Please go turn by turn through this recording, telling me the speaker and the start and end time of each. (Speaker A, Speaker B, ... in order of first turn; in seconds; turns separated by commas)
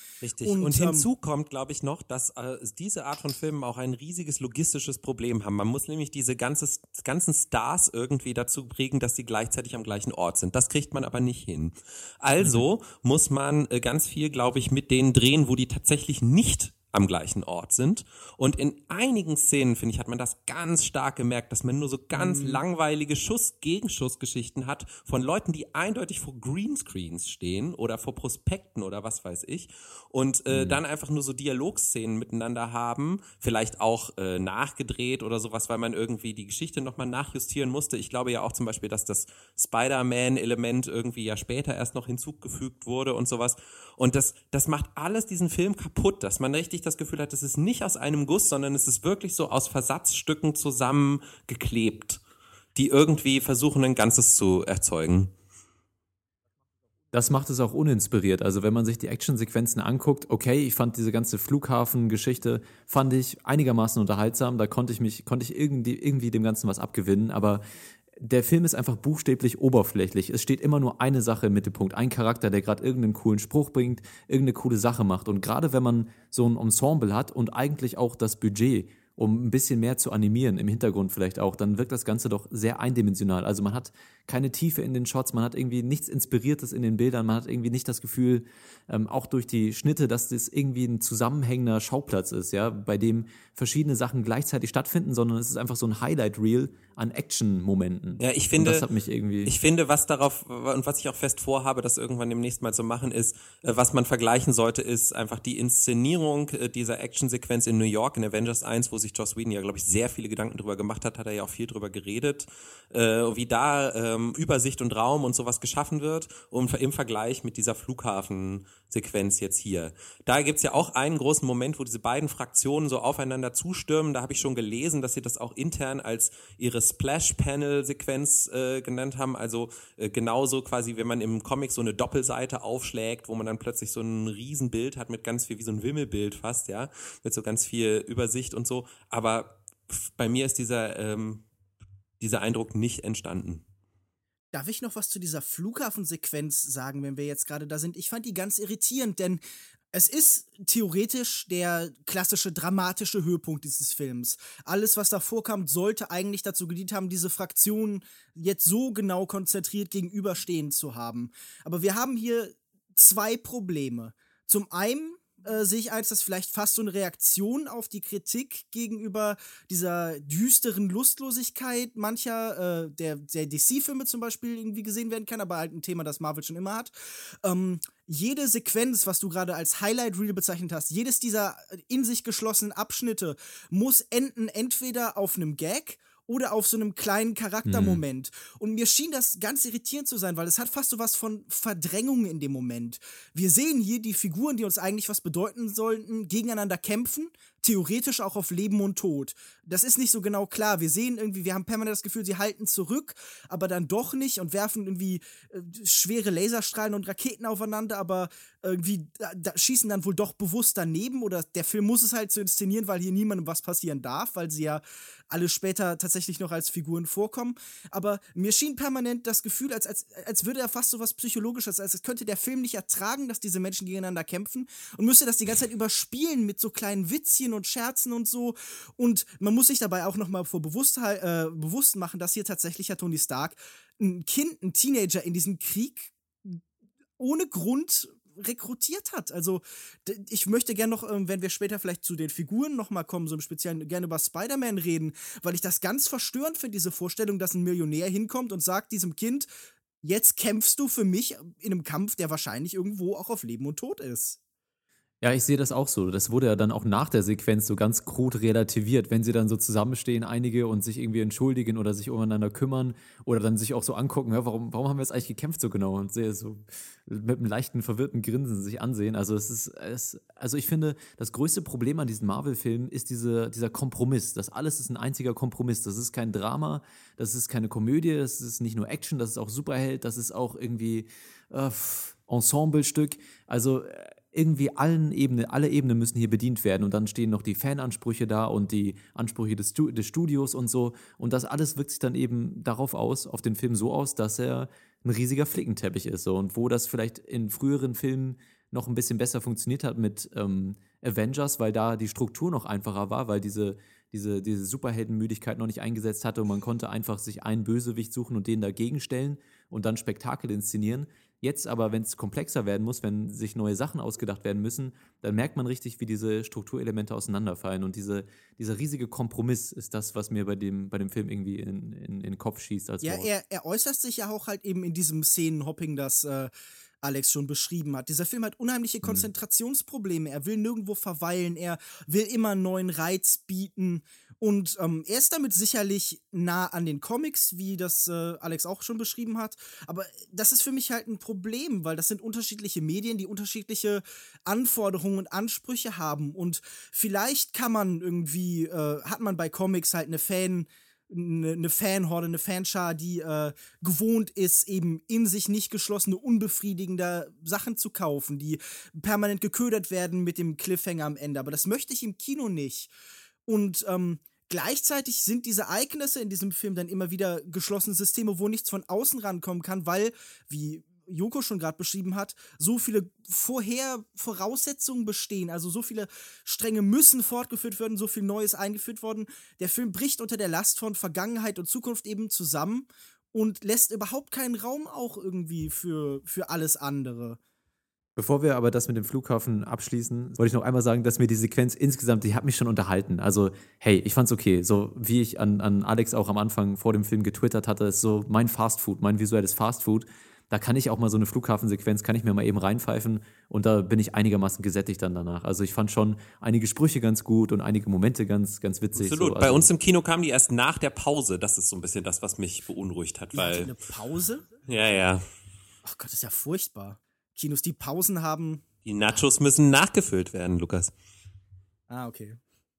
Speaker A: 0.2-52.2, Speaker B: 0.4-1.1, Speaker B: 22.1-22.6, Speaker C: 30.5-30.8, Speaker A: 52.7-55.3, Speaker C: 57.1-67.7, Speaker C: 68.2-99.5, Speaker A: 98.2-98.9, Speaker A: 99.4-141.4, Speaker A: 142.2-143.6, Speaker B: 144.5-149.4, Speaker B: 149.9-176.9, Speaker B: 177.4-236.6, Speaker C: 187.7-188.0, Speaker B: 237.2-249.5, Speaker B: 250.0-254.4, Speaker C: 255.2-323.3, Speaker B: 323.0-326.5, Speaker B: 327.0-362.9, Speaker C: 329.0-329.3, Speaker B: 363.5-387.4, Speaker C: 388.1-409.7, Speaker A: 408.9-413.7, Speaker B: 413.3-414.4, Speaker A: 414.7-415.2, Speaker B: 415.8-418.6, Speaker A: 418.8-420.9, Speaker B: 421.9-422.4